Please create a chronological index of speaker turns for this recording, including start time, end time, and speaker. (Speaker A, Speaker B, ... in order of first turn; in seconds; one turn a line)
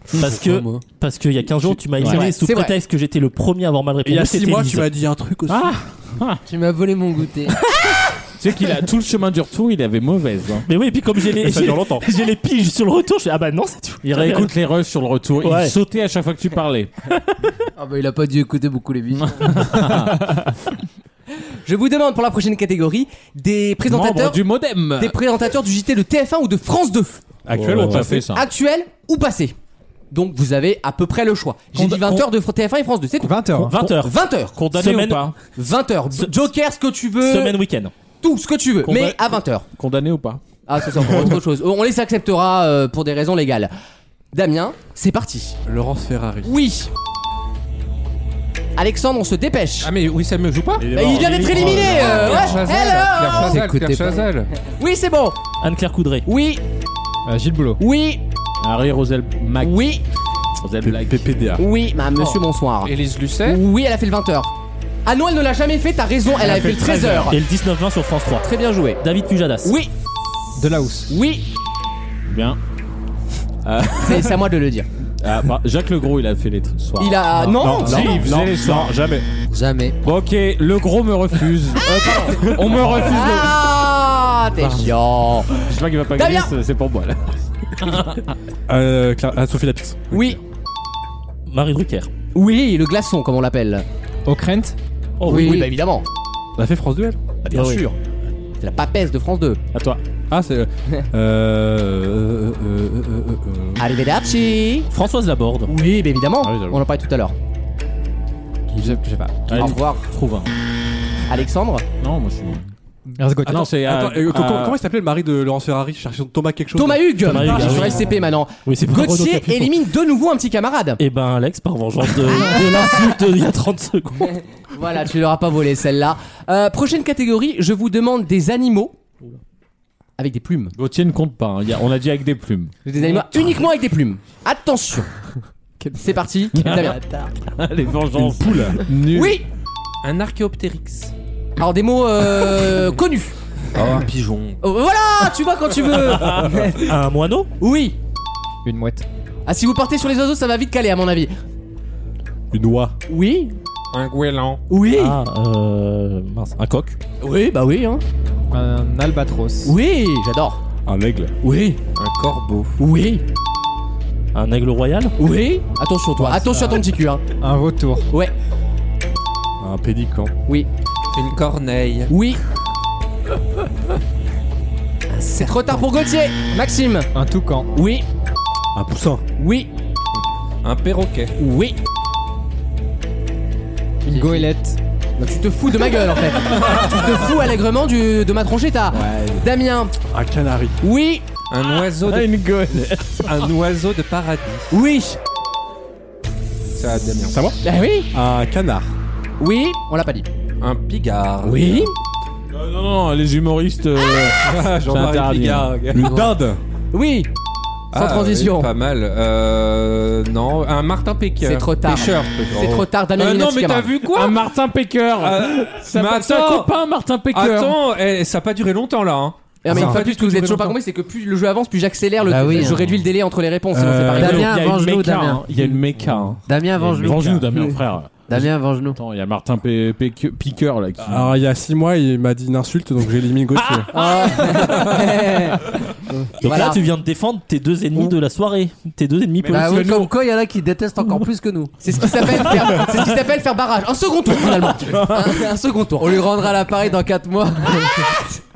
Speaker A: 0.2-4.9
Speaker B: 0.2-0.8
Speaker C: 2.0-2.3
Speaker D: 2.0-2.7
Speaker B: 4.0-5.7
Speaker C: 5.5-6.4
Speaker E: 6.5-7.5
Speaker C: 8.4-10.7
Speaker A: 10.7-14.5
Speaker B: 11.4-12.1
Speaker C: 14.0-17.1
Speaker A: 15.4-15.8
Speaker E: 17.8-19.8
Speaker C: 19.1-20.6
Speaker D: 21.6-27.2
Speaker C: 23.9-25.1
Speaker B: 27.4-28.3
Speaker C: 27.5-28.4
Speaker D: 27.8-29.5
Speaker D: 30.1-34.6
Speaker C: 31.7-32.2
Speaker F: 33.2-33.7
Speaker A: 33.7-34.1
Speaker C: 34.5-35.4
Speaker A: 34.7-35.3
Speaker D: 35.5-37.6
Speaker A: 37.2-37.9
Speaker D: 38.2-39.6
Speaker A: 38.9-39.1
Speaker C: 39.7-40.4
Speaker D: 40.7-43.7
Speaker D: 44.3-45.6
Speaker B: 45.6-46.5
Speaker D: 46.4-46.9
Speaker D: 48.8-49.9
Speaker G: 49.8-54.5
Speaker B: 50.8-52.6
Speaker D: 50.9-53.6
Speaker E: 53.2-54.2
Speaker D: 54.6-55.4
Speaker A: 55.6-56.3
Speaker D: 56.2-56.6
Speaker F: 57.2-57.8
Speaker D: 57.8-58.2
Speaker C: 58.6-59.9
Speaker D: 59.6-60.0
Speaker C: 60.6-61.2
Speaker B: 60.8-61.6
Speaker D: 61.6-64.5
Speaker G: 62.8-63.6
Speaker D: 65.0-67.4
Speaker B: 66.4-67.2
Speaker C: 66.4-67.3
Speaker A: 67.3-68.5
Speaker D: 68.4-69.0
Speaker A: 69.0-69.8
Speaker D: 69.6-69.9
Speaker F: 70.6-71.1
Speaker D: 71.1-71.4
Speaker C: 72.3-72.6
Speaker C: 73.6-74.3
Speaker D: 74.0-74.9
Speaker C: 75.2-79.0
Speaker D: 77.0-78.2
Speaker B: 77.5-79.2
Speaker E: 79.5-80.0
Speaker C: 80.0-83.6
Speaker D: 82.0-82.4
Speaker B: 82.6-83.0
Speaker D: 82.9-85.6
Speaker C: 85.6-87.2
Speaker D: 86.1-86.5
Speaker C: 87.8-88.3
Speaker B: 88.7-90.3
Speaker D: 90.1-90.4
Speaker A: 91.5-92.1
Speaker D: 92.3-93.8
Speaker F: 94.2-94.8
Speaker A: 95.2-95.7
Speaker D: 95.2-96.0
Speaker E: 95.3-95.6
Speaker B: 96.5-97.2
Speaker D: 97.4-98.0
Speaker A: 97.5-97.8
Speaker D: 98.6-99.6
Speaker C: 99.7-100.0
Speaker B: 100.3-103.8
Speaker D: 103.8-104.9
Speaker A: 104.9-105.7
Speaker D: 105.7-107.3
Speaker C: 106.4-106.8
Speaker F: 108.7-109.3
Speaker C: 109.5-110.5
Speaker D: 109.5-110.1
Speaker D: 111.3-111.8
Speaker C: 112.0-112.7
Speaker F: 113.2-113.7
Speaker C: 113.5-114.8
Speaker B: 113.5-117.9
Speaker D: 116.8-121.0
Speaker A: 117.2-119.7
Speaker A: 121.0-124.4
Speaker D: 122.4-122.8
Speaker D: 124.7-128.9
Speaker D: 130.2-130.7
Speaker C: 130.8-132.7
Speaker D: 132.8-135.1
Speaker D: 135.9-137.3
Speaker C: 136.6-136.9
Speaker C: 137.4-139.1
Speaker B: 138.1-139.2
Speaker D: 139.1-139.4
Speaker G: 140.0-141.1
Speaker D: 141.6-143.3
Speaker G: 143.7-144.6
Speaker D: 144.6-146.9
Speaker A: 146.3-147.5
Speaker D: 147.6-148.0
Speaker F: 148.6-149.0
Speaker D: 149.4-151.3
Speaker B: 152.5-152.9
Speaker D: 153.1-153.6
Speaker G: 153.9-154.6
Speaker D: 154.7-155.2
Speaker A: 154.9-157.0
Speaker D: 157.2-158.0
Speaker F: 158.5-159.7
Speaker D: 159.6-160.6
Speaker B: 160.8-161.3
Speaker D: 161.4-161.8
Speaker G: 161.9-162.8
Speaker D: 162.8-163.2
Speaker A: 164.3-165.1
Speaker D: 165.2-167.2
Speaker F: 166.2-166.8
Speaker F: 167.4-168.1
Speaker B: 169.6-170.3
Speaker G: 171.1-172.1
Speaker D: 172.1-172.4
Speaker E: 175.1-175.9
Speaker D: 175.3-177.1
Speaker F: 177.1-177.7
Speaker D: 177.7-178.0
Speaker B: 178.7-179.2
Speaker D: 179.4-179.7
Speaker G: 180.6-181.3
Speaker D: 181.4-181.8
Speaker F: 184.1-184.8
Speaker D: 185.2-189.9
Speaker B: 190.1-190.8
Speaker D: 190.8-191.3
Speaker G: 191.5-194.7
Speaker C: 191.9-193.5
Speaker D: 194.7-195.2
Speaker G: 196.7-197.4
Speaker B: 197.3-197.6
Speaker D: 197.6-198.1
Speaker B: 198.1-198.9
Speaker D: 199.4-200.3
Speaker G: 200.6-201.9
Speaker D: 201.4-201.9
Speaker C: 202.5-206.2
Speaker G: 204.4-206.1
Speaker B: 205.9-206.6
Speaker D: 206.9-207.3
Speaker G: 207.9-214.4
Speaker D: 207.9-208.7
Speaker D: 211.4-214.0
Speaker C: 213.9-217.8
Speaker G: 215.2-216.7
Speaker G: 217.3-220.7
Speaker D: 219.6-224.5
Speaker B: 219.7-220.0
Speaker E: 222.2-222.9
Speaker B: 223.7-224.4
Speaker E: 224.1-225.6
Speaker C: 224.2-231.3
Speaker E: 226.4-227.7
Speaker E: 228.3-229.0
Speaker B: 231.0-233.9
Speaker C: 233.6-234.3
Speaker D: 233.9-235.7
Speaker A: 236.4-240.1
Speaker D: 236.4-236.8
Speaker E: 239.5-241.7
Speaker D: 241.8-246.3
Speaker E: 245.1-245.4
Speaker E: 246.0-248.1
Speaker D: 247.8-248.2